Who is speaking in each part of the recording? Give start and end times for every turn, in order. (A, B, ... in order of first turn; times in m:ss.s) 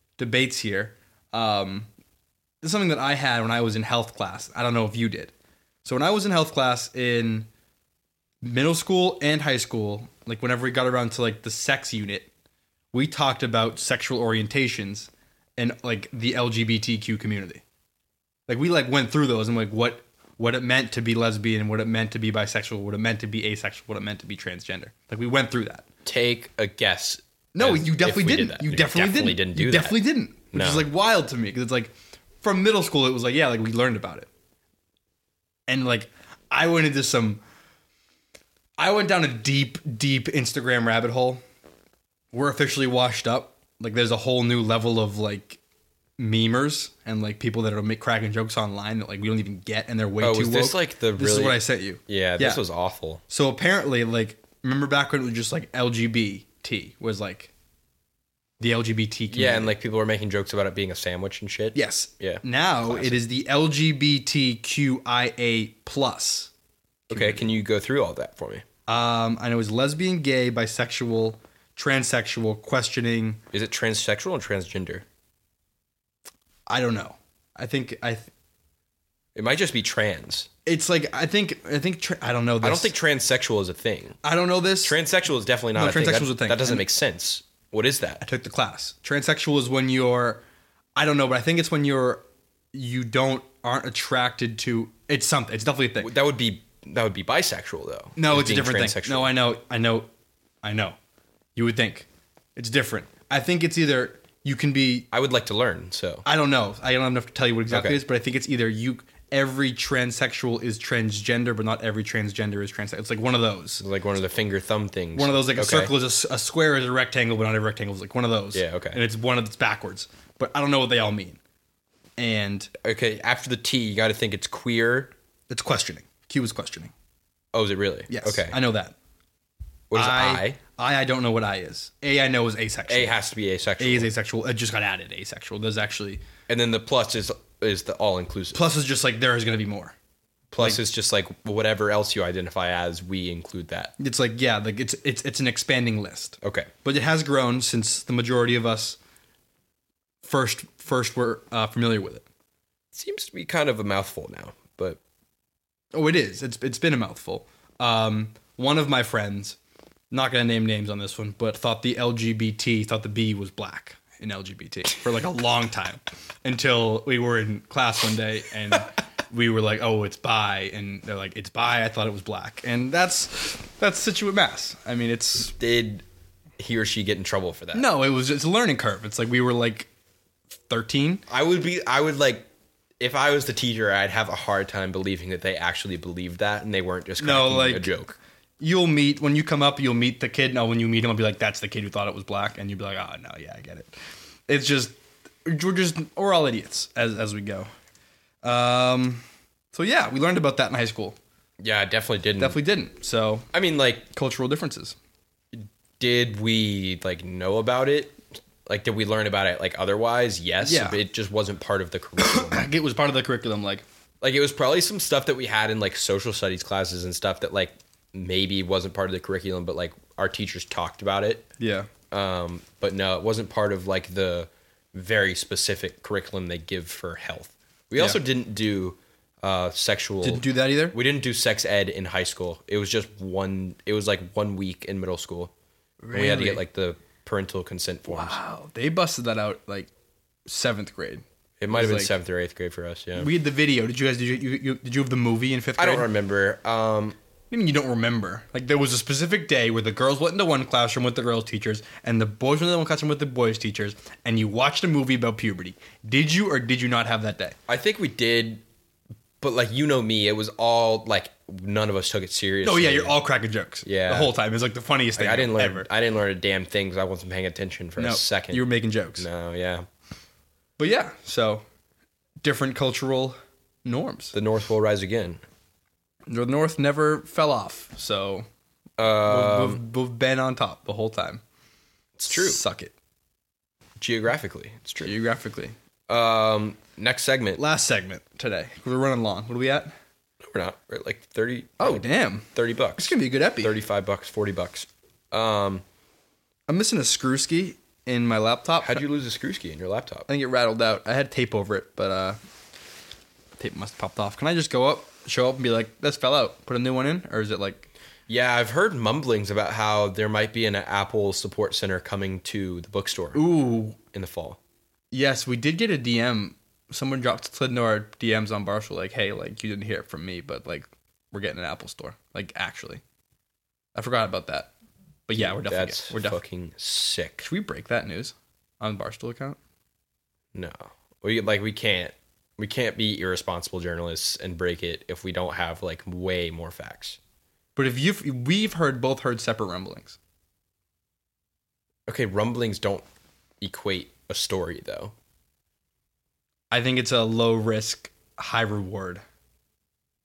0:00.2-0:01.9 A
0:02.6-0:05.3 A
0:05.8-0:07.5 A
0:08.4-0:12.3 A
0:12.9-0:17.6 A
0:18.5-0:25.8 A
0:26.0-0:30.9 B
0:27.5-0:34.3 A
0:35.7-0:37.4 A
0:38.8-0:41.4 A
0:42.3-0:45.6 A
0:46.2-0:52.6 A
0:50.2-0:53.2 B
0:53.3-0:57.5 A
0:58.6-0:59.7 A
0:59.3-1:03.2 B
1:01.7-1:06.5 A
1:07.1-1:07.5 A
1:07.1-1:08.6 B
1:08.9-1:13.4 A
1:13.5-1:15.0 B
1:16.7-1:18.3 A
1:19.3-1:20.5 B
1:20.6-1:22.9 A
1:22.6-1:24.2 B
1:24.2-1:25.0 A
1:24.8-1:28.2 B
1:25.7-1:26.8 A
1:28.2-1:30.4 A
1:31.0-1:36.1 A
1:36.0-1:39.3 B
1:38.2-1:40.1 A
1:40.6-1:41.0 A
1:41.6-1:45.1 A
1:45.1-1:46.2 B
1:46.2-1:53.8 A
1:47.7-1:48.0 B
1:53.8-1:55.9 B
1:55.2-2:01.4 A
1:58.5-1:59.0 B
2:02.2-2:02.7 A
2:02.8-2:05.1 B
2:05.5-2:06.9 A
2:07.5-2:08.6 B
2:08.1-2:08.9 A
2:09.9-2:10.6 B
2:09.9-2:13.1 A
2:12.9-2:14.1 B
2:13.8-2:16.2 A
2:16.5-2:18.6 B
2:18.5-2:19.9 A
2:20.5-2:23.9 B
2:24.0-2:29.0 A
2:26.4-2:26.7 B
2:30.2-2:32.2 A
2:32.9-2:35.0 B
2:35.9-2:39.6 A
2:40.1-2:55.6 A
2:55.6-2:56.0 B
2:56.6-2:57.9 B
2:57.7-2:59.9 A
3:00.7-3:01.2 A
3:01.3-3:02.5 B
3:03.0-3:08.2 B
3:07.2-3:07.9 A
3:08.6-3:13.9 A
3:14.5-3:17.7 A
3:18.4-3:21.2 A
3:21.6-3:22.6 B
3:22.4-3:23.5 A
3:23.5-3:24.0 B
3:24.1-3:25.0 A
3:25.5-3:32.7 B
3:30.6-3:31.0 A
3:32.2-3:33.8 A
3:34.2-3:41.5 B
3:41.6-3:41.9 A
3:42.1-3:55.5 B
3:50.2-3:51.0 A
3:56.0-3:56.6 A
3:56.1-3:58.4 B
3:58.1-3:59.9 A
4:00.4-4:02.1 A
4:01.6-4:03.3 B
4:03.2-4:06.1 A
4:05.8-4:07.2 B
4:07.5-4:17.6 A
4:17.7-4:18.6 B
4:19.4-4:23.1 B
4:22.6-4:25.9 A
4:23.8-4:24.3 B
4:25.2-4:28.6 B
4:28.0-4:29.3 A
4:29.2-4:29.9 B
4:30.8-4:31.6 A
4:32.4-4:34.3 A
4:34.3-4:35.4 B
4:36.3-4:38.4 A
4:39.0-4:39.8 B
4:39.2-4:41.4 A
4:42.2-4:42.6 B
4:42.3-4:42.9 A
4:44.0-4:45.1 B
4:45.0-4:45.7 A
4:46.1-4:47.6 B
4:47.6-4:49.9 A
4:50.4-4:55.8 B
4:51.8-4:53.8 A
4:56.7-4:59.0 A
4:58.8-5:00.3 B
5:00.3-5:02.4 A
5:03.6-5:07.9 A
5:08.3-5:13.4 B
5:13.3-5:14.0 A
5:14.1-5:14.6 B
5:15.1-5:23.0 A
5:23.9-5:24.7 A
5:25.3-5:26.4 A
5:25.3-5:27.4 B
5:27.4-5:29.6 A
5:30.5-5:37.2 B
5:37.8-5:40.2 A
5:42.1-5:43.0 B
5:43.6-5:45.1 B
5:46.7-5:49.2 A